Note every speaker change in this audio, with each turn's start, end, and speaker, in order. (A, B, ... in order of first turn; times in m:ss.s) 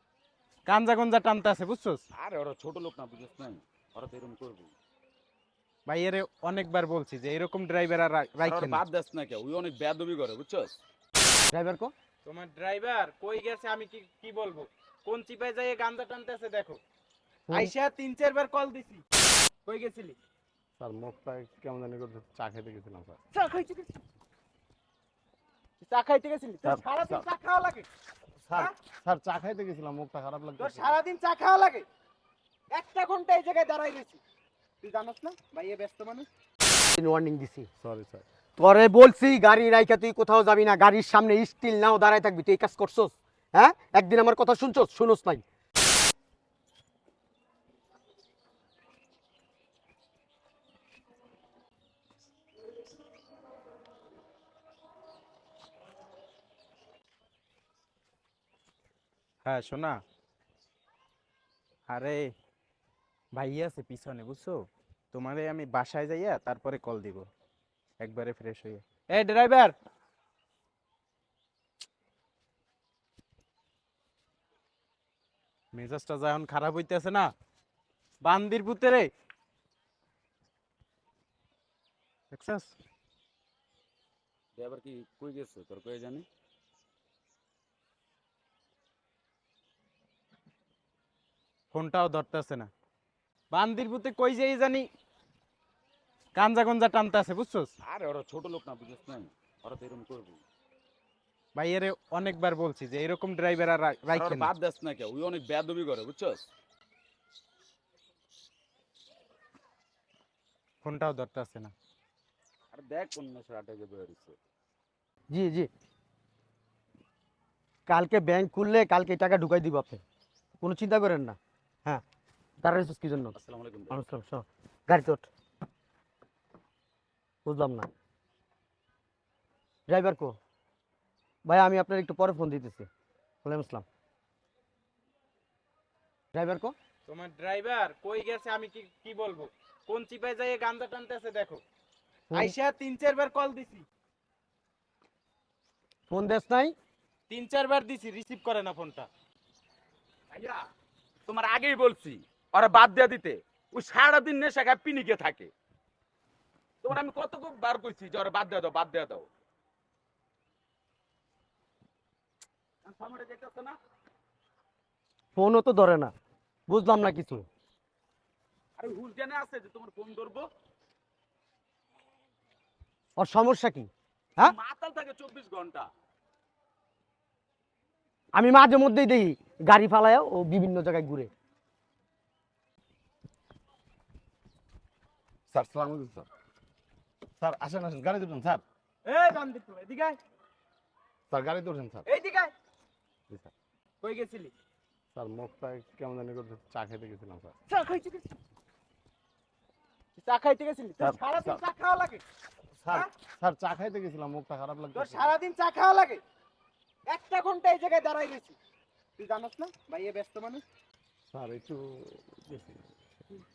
0:00.7-0:02.0 A
0:02.2-0:04.7 B
0:05.9-0:08.8 A
0:08.4-0:10.8 B
0:11.5-0:11.9 C
0:12.2-0:16.8 A
0:17.5-0:19.0 A
0:19.6-0:20.2 A
0:20.8-0:23.2 D
0:23.3-0:23.9 A
0:25.8-0:27.9 A
0:26.6-0:27.2 D
0:28.5-0:31.0 D
0:30.6-0:31.8 A
0:32.7-0:34.2 A
0:34.8-0:36.3 A
0:36.8-0:37.7 C
0:37.8-0:38.2 D
0:38.6-0:45.4 C
0:59.4-1:00.0 A
1:01.9-1:02.3 A
1:03.3-1:07.3 A
1:08.0-1:09.7 A
1:15.7-1:17.3 A
1:18.2-1:19.1 A
1:22.3-1:22.8 A
1:24.6-1:26.3 B
1:31.7-1:32.7 A
1:33.5-1:34.9 A
1:36.4-1:37.7 A
1:37.8-1:40.4 B
1:41.6-1:44.5 A
1:44.1-1:46.4 B
1:50.8-1:51.7 A
1:52.7-1:54.4 B
1:55.3-1:55.7 C
1:57.9-2:00.0 C
2:00.6-2:02.0 C
2:02.6-2:03.4 C
2:03.4-2:03.9 B
2:03.9-2:05.3 C
2:07.4-2:07.9 C
2:09.9-2:10.4 C
2:11.5-2:12.9 C
2:13.4-2:13.9 C
2:16.3-2:16.7 C
2:17.1-2:21.6 A
2:22.3-2:23.9 A
2:26.1-2:26.8 C
2:27.3-2:29.1 A
2:30.3-2:30.6 B
2:31.3-2:35.5 B
2:36.8-2:39.3 B
2:42.8-2:43.8 B
2:45.4-2:46.1 C
2:46.7-2:47.5 C
2:48.8-2:50.5 B
2:53.2-2:54.5 C
2:54.4-2:55.9 B
2:58.4-3:01.3 C
3:05.5-3:06.3 D
3:07.4-3:08.6 D
3:09.1-3:10.2 A
3:11.3-3:12.0 D
3:12.1-3:12.5 A
3:14.0-3:14.5 A
3:15.1-3:17.6 D
3:17.7-3:18.3 A
3:20.2-3:22.2 A
3:21.0-3:21.6 D
3:22.8-3:25.3 D
3:24.9-3:26.2 A
3:27.1-3:28.6 A
3:29.2-3:30.6 A
3:31.3-3:32.8 D